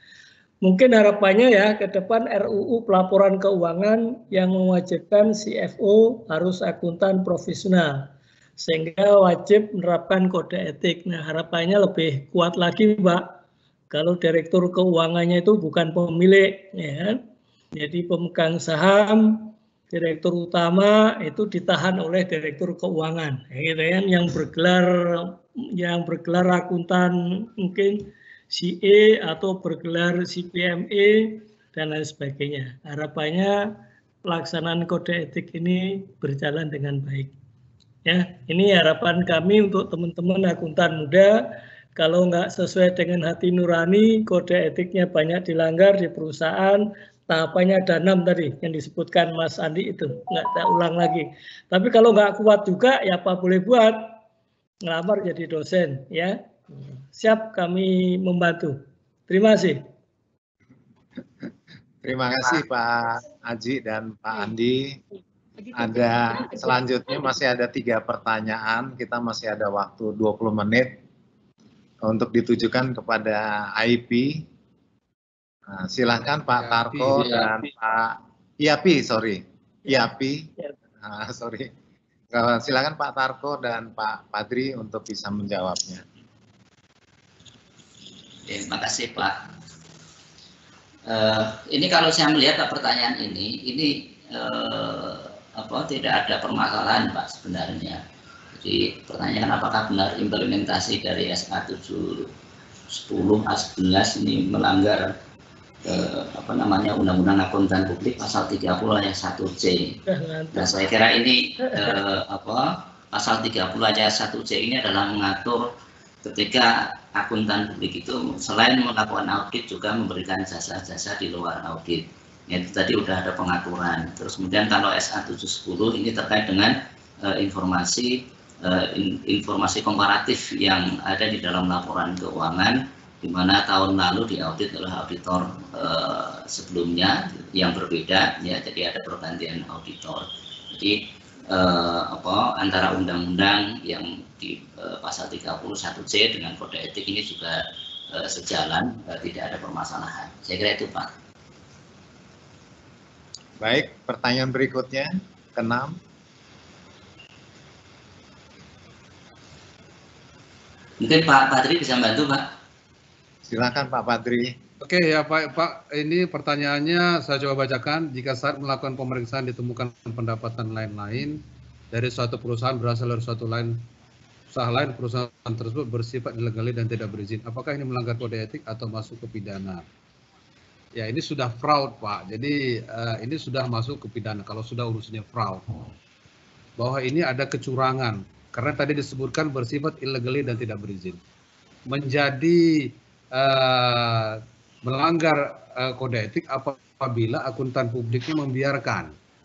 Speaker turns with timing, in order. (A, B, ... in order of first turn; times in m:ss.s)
0:00.6-0:13.3 A
0:13.9-0:17.2 A
0:17.8-0:37.3 A
0:38.0-0:41.3 A
0:42.0-0:54.1 A
0:54.8-0:59.8 A
1:02.0-1:05.0 B
1:05.7-1:10.9 B
1:12.0-1:14.4 B
1:15.7-1:20.5 B
1:16.5-1:17.7 C
1:21.0-1:21.7 B
1:22.3-1:26.0 B
1:28.5-1:29.4 D
1:31.1-1:38.0 D
1:38.6-1:42.3 D
1:42.9-1:45.1 D
1:45.9-1:50.0 D
1:50.1-1:50.8 A
1:50.5-1:55.7 D
1:56.2-2:21.0 D
2:21.5-2:27.6 D
2:28.1-2:31.1 D
2:33.6-2:36.0 B
2:41.0-2:42.4 D
2:43.5-2:44.5 B
2:44.8-2:53.8 C
2:54.5-2:59.8 C
3:01.0-3:05.9 C
3:06.8-3:11.2 C
3:11.9-3:19.1 C